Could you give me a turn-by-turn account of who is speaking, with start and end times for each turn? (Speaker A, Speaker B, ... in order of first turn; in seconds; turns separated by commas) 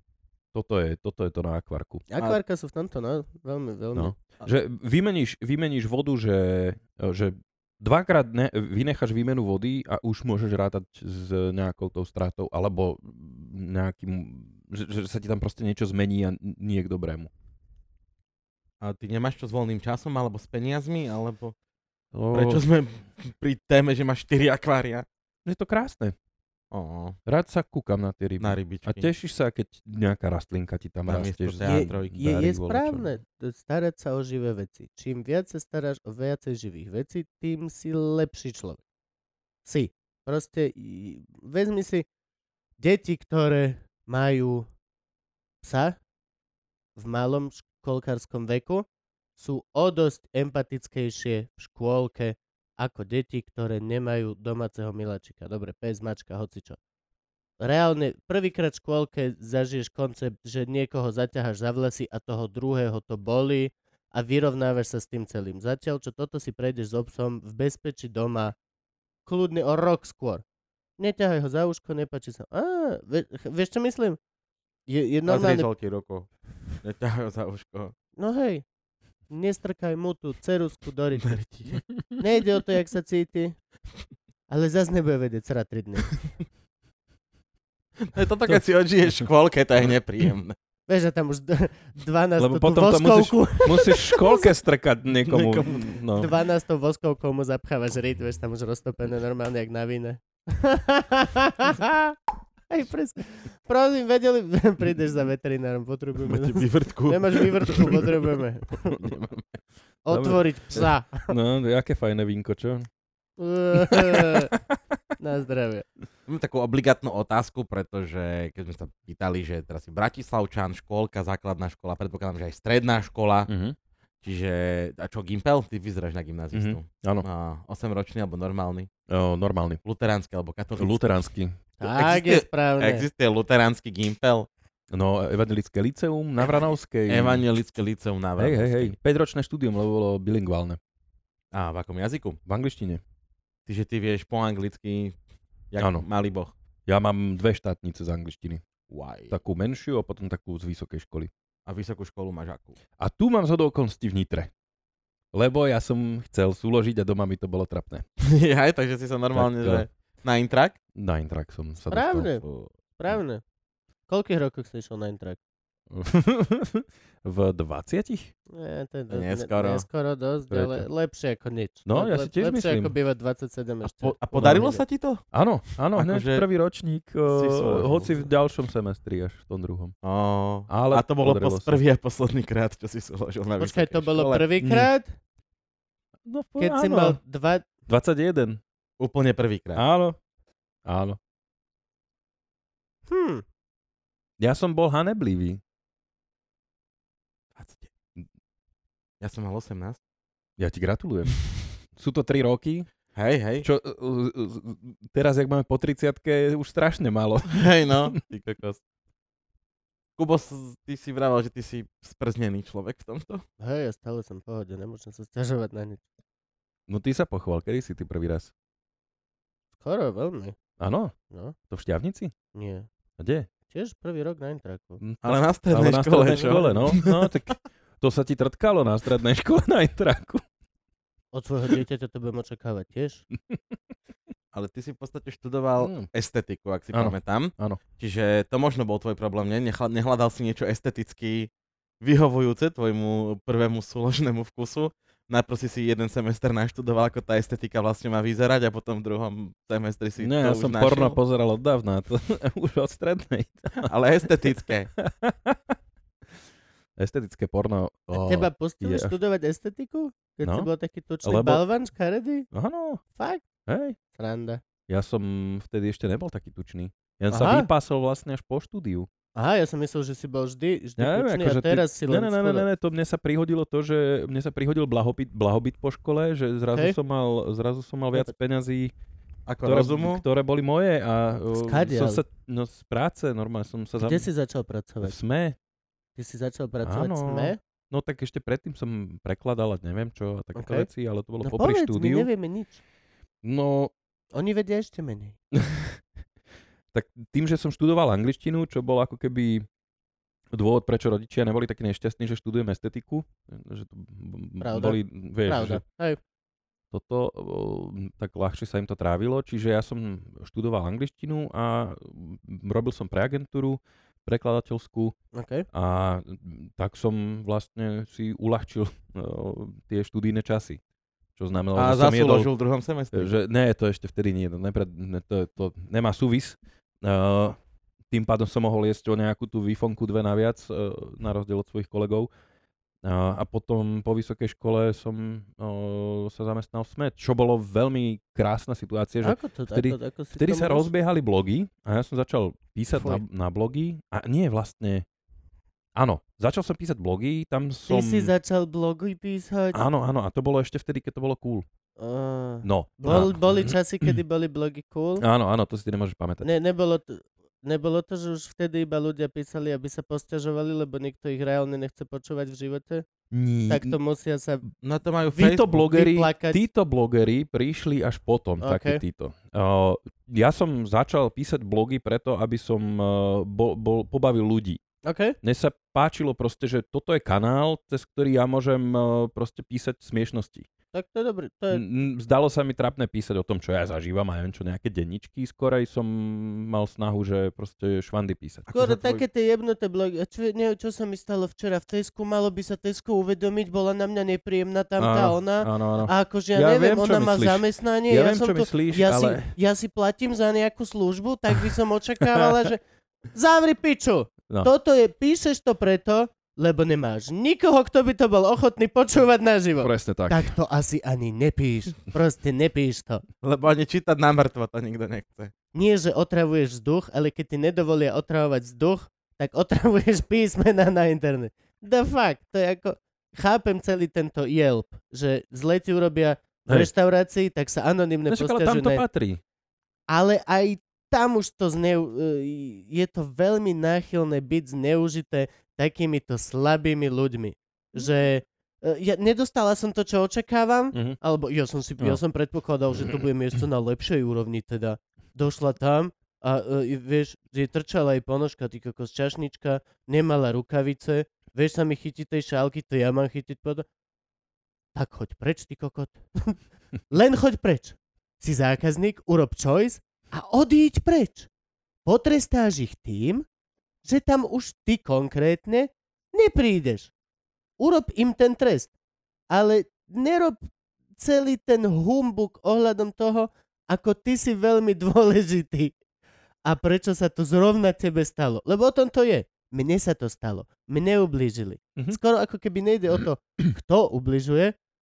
Speaker A: 0.5-2.0, Speaker B: 2.1-4.1, Speaker A: 4.0-17.3, Speaker C: 18.8-21.5, Speaker A: 22.1-22.6, Speaker C: 22.3-25.1, Speaker A: 25.4-26.1, Speaker C: 26.7-27.2, Speaker A: 27.3-33.1, Speaker C: 28.4-29.1, Speaker C: 31.1-32.2, Speaker B: 31.6-38.8, Speaker B: 39.6-42.1, Speaker B: 42.8-44.7, Speaker B: 45.6-46.0, Speaker B: 47.0-48.9, Speaker B: 49.4-56.8, Speaker B: 57.6-68.5, Speaker B: 69.3-70.4, Speaker B: 71.0-74.2, Speaker B: 74.9-75.7, Speaker C: 75.3-76.3, Speaker C: 76.8-77.9, Speaker B: 78.2-78.6, Speaker B: 79.3-81.4, Speaker C: 81.2-81.8, Speaker B: 82.2-83.6, Speaker B: 84.5-86.2, Speaker C: 88.0-90.6, Speaker B: 90.9-94.5, Speaker A: 92.4-96.3, Speaker C: 95.3-96.0, Speaker B: 96.2-102.2, Speaker B: 102.7-109.1, Speaker C: 106.2-108.1, Speaker C: 109.0-109.4, Speaker B: 110.0-111.3, Speaker A: 110.1-112.9, Speaker B: 113.4-114.5, Speaker A: 113.9-114.7, Speaker B: 115.2-115.9, Speaker C: 116.3-123.5, Speaker A: 123.5-123.8, Speaker C: 124.2-128.9, Speaker A: 126.5-127.2, Speaker A: 129.1-129.8, Speaker C: 129.8-131.1, Speaker A: 130.8-131.6, Speaker B: 131.8-133.1, Speaker C: 131.8-134.5, Speaker A: 134.9-137.4, Speaker C: 137.1-138.9, Speaker A: 138.4-140.8, Speaker C: 141.5-142.4, Speaker A: 142.5-143.0, Speaker C: 143.7-145.2, Speaker C: 145.7-146.5, Speaker A: 145.8-146.1, Speaker A: 146.9-148.6, Speaker C: 148.9-149.4, Speaker A: 149.3-151.3, Speaker C: 151.7-152.8, Speaker A: 153.0-154.5, Speaker A: 155.3-158.1, Speaker C: 158.2-160.8, Speaker A: 159.3-159.8, Speaker A: 160.9-162.3, Speaker B: 161.9-162.4, Speaker C: 162.4-162.7, Speaker B: 163.0-163.4, Speaker B: 164.1-165.4, Speaker A: 165.9-168.3, Speaker B: 168.5-174.8, Speaker C: 169.1-169.8, Speaker A: 170.5-170.9, Speaker A: 171.9-172.9, Speaker C: 173.8-175.3, Speaker A: 175.3-179.9, Speaker C: 175.8-176.5, Speaker C: 177.3-178.3, Speaker C: 180.0-184.5, Speaker A: 180.7-181.8, Speaker B: 183.6-185.2, Speaker A: 184.6-184.9, Speaker A: 186.3-187.2, Speaker B: 186.6-187.7, Speaker A: 187.9-188.6, Speaker C: 189.0-189.8, Speaker A: 189.8-190.2, Speaker A: 190.9-191.2, Speaker B: 193.1-193.4, Speaker A: 194.4-195.6, Speaker C: 197.6-197.9, Speaker C: 199.2-200.0, Speaker A: 200.6-202.9, Speaker C: 203.2-203.7, Speaker A: 203.6-208.2, Speaker C: 207.5-208.8, Speaker C: 210.2-213.4, Speaker B: 213.6-216.0, Speaker A: 216.9-218.5, Speaker B: 219.8-220.6, Speaker A: 220.8-221.1, Speaker B: 221.3-221.6, Speaker A: 221.7-222.3, Speaker B: 222.5-222.9, Speaker A: 223.2-223.5, Speaker B: 223.7-225.0, Speaker A: 225.0-230.4, Speaker C: 225.2-227.3, Speaker B: 231.3-233.2, Speaker C: 234.5-241.5, Speaker A: 235.8-236.1, Speaker A: 236.9-237.8, Speaker C: 242.0-251.2, Speaker A: 250.2-253.9, Speaker C: 253.8-254.9, Speaker A: 255.0-255.8, Speaker A: 257.0-259.1, Speaker B: 258.1-262.5, Speaker A: 260.4-260.7, Speaker A: 261.2-261.6, Speaker A: 262.5-263.0, Speaker B: 263.1-263.4, Speaker A: 263.7-264.0, Speaker B: 264.1-264.6, Speaker A: 264.9-269.1, Speaker B: 267.3-267.7, Speaker B: 269.4-272.7, Speaker A: 271.0-278.9, Speaker C: 279.5-280.2, Speaker A: 279.6-284.3, Speaker B: 281.5-282.2, Speaker B: 284.0-285.2, Speaker A: 285.0-285.6, Speaker B: 286.2-287.6, Speaker A: 286.8-292.3, Speaker B: 290.6-290.9, Speaker B: 291.4-292.8, Speaker A: 293.4-293.9, Speaker B: 294.3-295.4, Speaker A: 295.5-296.0, Speaker A: 296.9-299.7, Speaker A: 300.5-305.8, Speaker B: 304.6-306.2, Speaker A: 306.9-315.2, Speaker B: 315.3-315.7, Speaker A: 315.7-320.8, Speaker A: 321.4-322.5, Speaker C: 321.8-323.3, Speaker A: 323.1-327.6, Speaker A: 328.1-332.3, Speaker A: 333.0-345.1, Speaker B: 339.2-340.9, Speaker B: 342.9-343.2, Speaker A: 345.9-348.3, Speaker B: 347.9-349.9, Speaker A: 349.7-351.7, Speaker B: 352.0-355.2, Speaker A: 352.6-354.2, Speaker A: 355.2-356.5, Speaker B: 356.4-363.1, Speaker A: 363.3-364.0, Speaker B: 363.7-364.6, Speaker C: 364.8-365.8, Speaker A: 365.4-374.8, Speaker B: 365.7-366.6, Speaker B: 368.6-369.0, Speaker B: 375.0-375.4, Speaker A: 375.4-380.7, Speaker B: 380.9-381.8, Speaker A: 381.7-388.9, Speaker B: 388.7-413.2, Speaker C: 388.8-389.2, Speaker A: 395.0-399.5, Speaker A: 402.4-402.7, Speaker A: 409.8-410.5, Speaker C: 413.4-415.5, Speaker B: 415.7-429.0, Speaker A: 428.3-429.4, Speaker B: 430.1-453.9, Speaker A: 440.9-441.2, Speaker B: 454.9-456.6, Speaker B: 457.1-461.5, Speaker B: 462.1-463.4, Speaker B: 464.1-467.1, Speaker B: 467.8-468.9, Speaker B: 469.5-470.6, Speaker B: 471.2-475.9, Speaker B: 476.7-484.7